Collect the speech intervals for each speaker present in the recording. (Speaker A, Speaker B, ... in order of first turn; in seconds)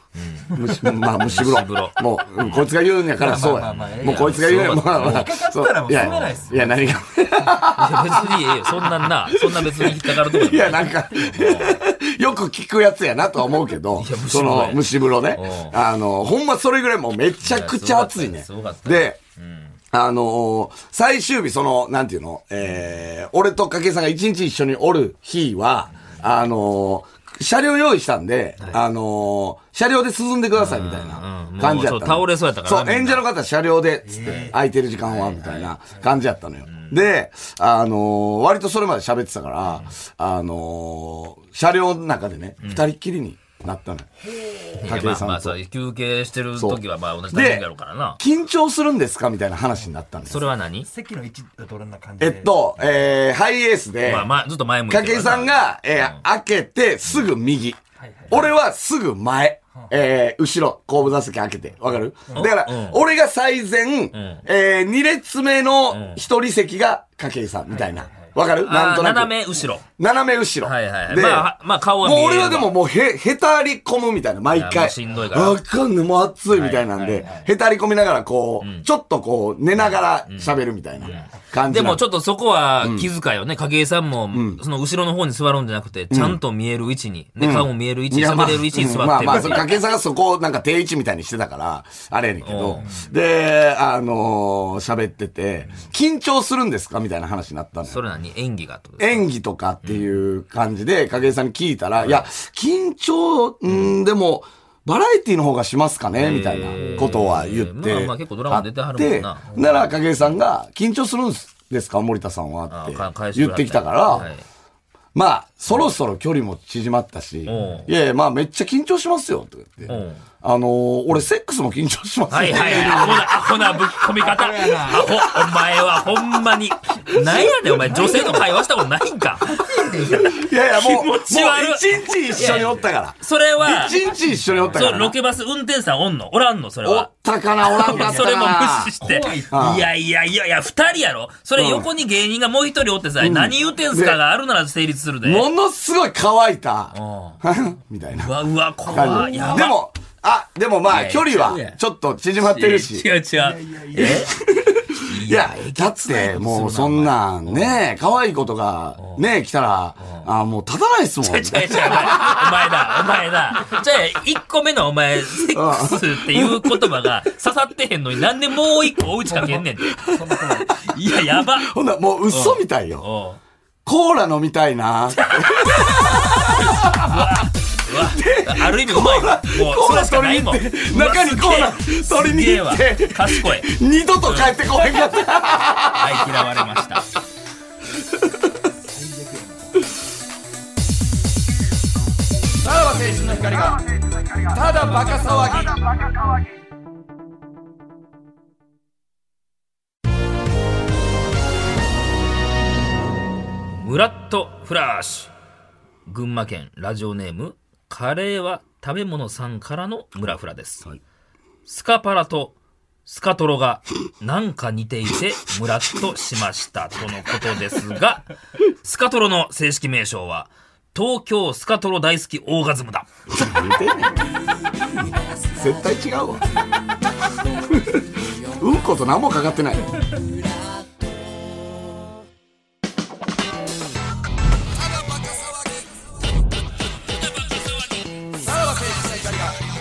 Speaker A: 0.1-2.7, 3.4-5.3, 5.9-6.4, 7.5-11.8, 13.9-15.8, 17.4-19.8, 30.5-33.3, 35.0-35.7, 36.6-37.0, 39.7-39.9, 42.6-42.9, 44.8-48.2, 50.2-50.9, 54.0-56.2, 62.3-63.0, 64.1-64.4, 65.9-66.2, 68.6-69.8, 70.6-72.8, 74.5-75.6, 76.5-77.5, 78.6-78.9, 79.8-89.8, 92.4-93.0, 97.9-99.3, 99.8-100.1, 102.0-102.3, 103.7-104.0, 106.1-110.3, 112.7-114.4, 117.5-117.9, 119.9-120.2, 122.3-134.0, 134.7-145.5, 146.9-147.4, 148.1-149.8, 150.9-151.8, 152.4-154.4, 154.9-157.8, 159.0-159.3, 160.0-160.3, 161.2-171.7, 172.3-173.4, 175.1-185.0, 185.9-187.1, 203.7-205.3, 206.1-210.9, 211.7-223.1, 237.2-237.9
Speaker B: 0.5-19.2, 19.9-44.1, 44.8-45.6, 46.5-47.6, 48.2-50.5, 52.2-54.3, 54.9-69.3, 70.0-82.0, 82.8-83.1, 84.3-84.6, 86.1-86.4, 87.4-98.0, 99.0-114.3, 115.1-123.3, 130.2-135.2, 136.8-139.9, 141.6-141.9, 143.2-144.2, 145.2-148.4, 148.9-153.1, 154.0-162.7, 165.5-167.1, 169.9-170.2, 171.1-173.0, 173.8-186.5, 188.1-188.5, 192.6-193.8, 194.5-195.8, 223.3-224.3, 224.9-226.4, 227.7-230.0, 235.0-235.6, 238.5-239.5
Speaker C: 3.2-7.0, 10.9-11.6, 34.0-34.6, 44.3-44.7, 50.8-52.6, 58.0-58.4, 67.7-68.3, 92.8-93.1, 122.5-125.5, 127.0-128.4, 129.5-130.2, 132.4-132.8, 134.0-134.8, 137.8-138.2, 139.0-139.6, 148.9-149.6, 153.3-154.3, 169.3-170.8, 188.8-189.9